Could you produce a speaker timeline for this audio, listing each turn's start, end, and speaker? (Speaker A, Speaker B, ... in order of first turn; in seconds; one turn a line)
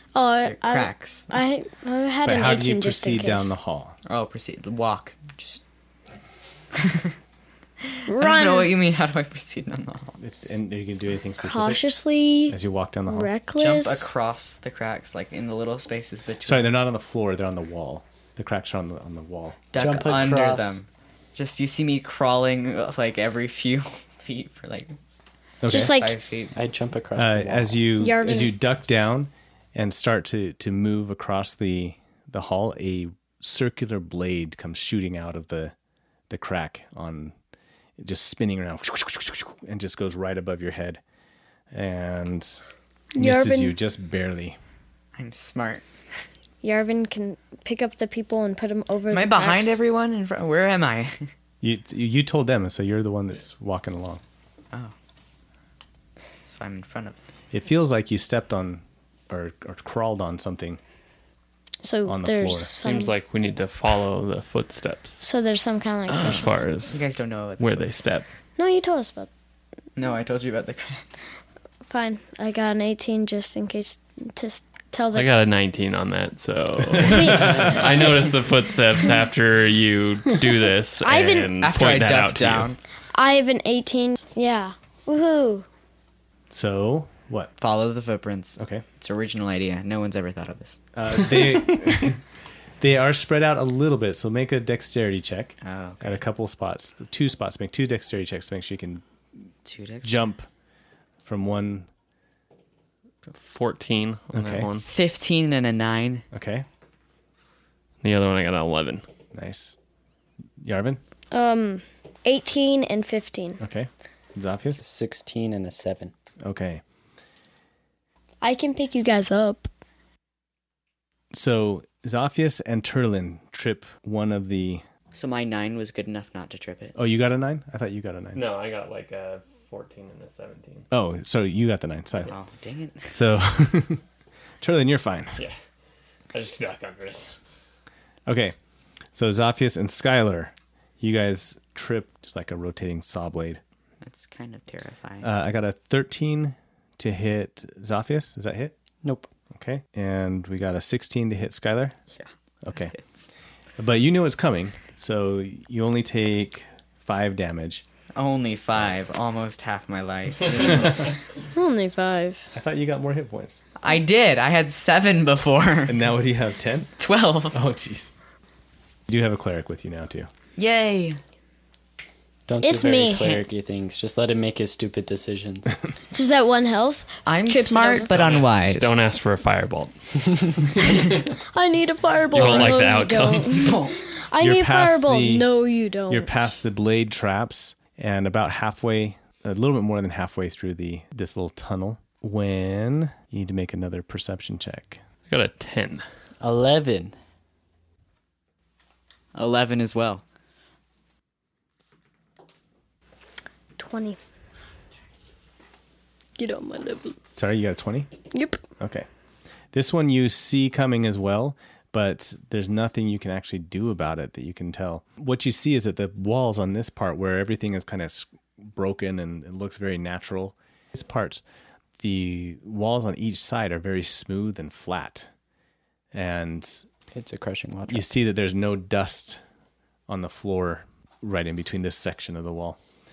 Speaker A: 0.1-3.6
Speaker B: 0.4-1.3
Speaker C: 2.2-4.0
Speaker B: 4.1-5.6
Speaker B: 6.7-7.1
Speaker B: 7.8-10.2
Speaker A: 8.1-8.7
Speaker C: 10.2-11.9
Speaker A: 11.4-14.1
Speaker C: 12.5-13.3
Speaker B: 13.6-16.7
Speaker C: 16.4-19.6
Speaker B: 19.7-24.9
Speaker D: 19.8-20.8
Speaker C: 25.6-26.0
Speaker A: 25.7-26.1
Speaker B: 25.8-26.6
Speaker D: 26.5-27.8
Speaker C: 27.1-35.7
Speaker A: 28.0-28.6
Speaker C: 36.3-37.4
Speaker C: 38.0-41.0
Speaker C: 41.7-42.6
Speaker A: 43.1-43.7
Speaker C: 43.2-44.6
Speaker B: 45.1-45.9
Speaker A: 46.6-49.8
Speaker B: 49.1-51.3
Speaker C: 51.6-54.2
Speaker B: 56.5-57.2
Speaker C: 57.5-60.8
Speaker A: 61.8-63.1
Speaker C: 62.1-62.7
Speaker E: 62.8-65.2
Speaker A: 65.2-66.8
Speaker E: 66.1-67.0
Speaker B: 66.2-67.9
Speaker E: 67.6-68.3
Speaker A: 68.6-69.3
Speaker B: 70.0-71.1
Speaker A: 71.9-75.3
Speaker E: 75.1-82.8
Speaker A: 77.0-78.2
Speaker A: 81.0-81.6
Speaker B: 81.6-82.8
Speaker A: 83.1-85.7
Speaker C: 86.5-87.5
Speaker B: 87.6-90.8
Speaker C: 88.6-88.8
Speaker C: 90.9-92.2
Speaker C: 92.8-99.0
Speaker B: 95.6-96.2
Speaker B: 99.6-100.2
Speaker C: 100.0-100.5
Speaker C: 101.2-101.9
Speaker E: 103.3-104.9
Speaker C: 104.3-104.7
Speaker B: 104.9-106.2
Speaker C: 106.3-106.7
Speaker E: 108.0-109.0
Speaker C: 109.3-109.8
Speaker C: 110.6-111.0
Speaker A: 111.3-113.6
Speaker C: 113.6-114.8
Speaker D: 114.8-116.1
Speaker C: 116.4-116.8
Speaker A: 118.4-119.7
Speaker C: 121.3-124.8
Speaker B: 125.1-126.9
Speaker C: 126.9-128.4
Speaker E: 128.3-130.9
Speaker C: 130.9-132.3
Speaker B: 132.2-133.1
Speaker C: 133.1-134.0
Speaker C: 134.6-135.4
Speaker E: 136.3-137.4
Speaker C: 138.3-138.6
Speaker C: 139.1-143.6
Speaker B: 144.0-145.3
Speaker C: 145.2-148.7
Speaker D: 149.0-149.3
Speaker C: 149.5-151.9
Speaker B: 152.1-153.3
Speaker C: 152.6-152.9
Speaker C: 153.8-157.8
Speaker B: 158.2-161.1
Speaker A: 161.5-162.5
Speaker C: 162.5-163.6
Speaker B: 163.8-166.0
Speaker C: 165.9-166.9
Speaker B: 167.0-167.6
Speaker C: 167.5-168.1
Speaker C: 169.1-170.3
Speaker B: 170.6-171.2
Speaker D: 172.5-175.8
Speaker A: 172.6-173.4
Speaker A: 176.1-178.1
Speaker B: 177.2-179.0
Speaker E: 178.1-181.2
Speaker A: 181.5-186.3
Speaker E: 182.3-183.9
Speaker C: 182.4-182.7
Speaker B: 183.6-184.0
Speaker C: 184.4-185.5
Speaker C: 186.1-195.0
Speaker E: 195.3-196.1
Speaker D: 196.4-197.1
Speaker B: 199.3-200.2
Speaker A: 203.8-204.2
Speaker A: 206.4-207.2
Speaker C: 207.3-208.1
Speaker A: 208.3-208.6
Speaker C: 208.8-209.1
Speaker C: 209.7-221.4
Speaker C: 222.0-225.3
Speaker C: 226.1-226.9
Speaker D: 227.1-228.1
Speaker C: 227.9-229.4
Speaker C: 230.1-232.8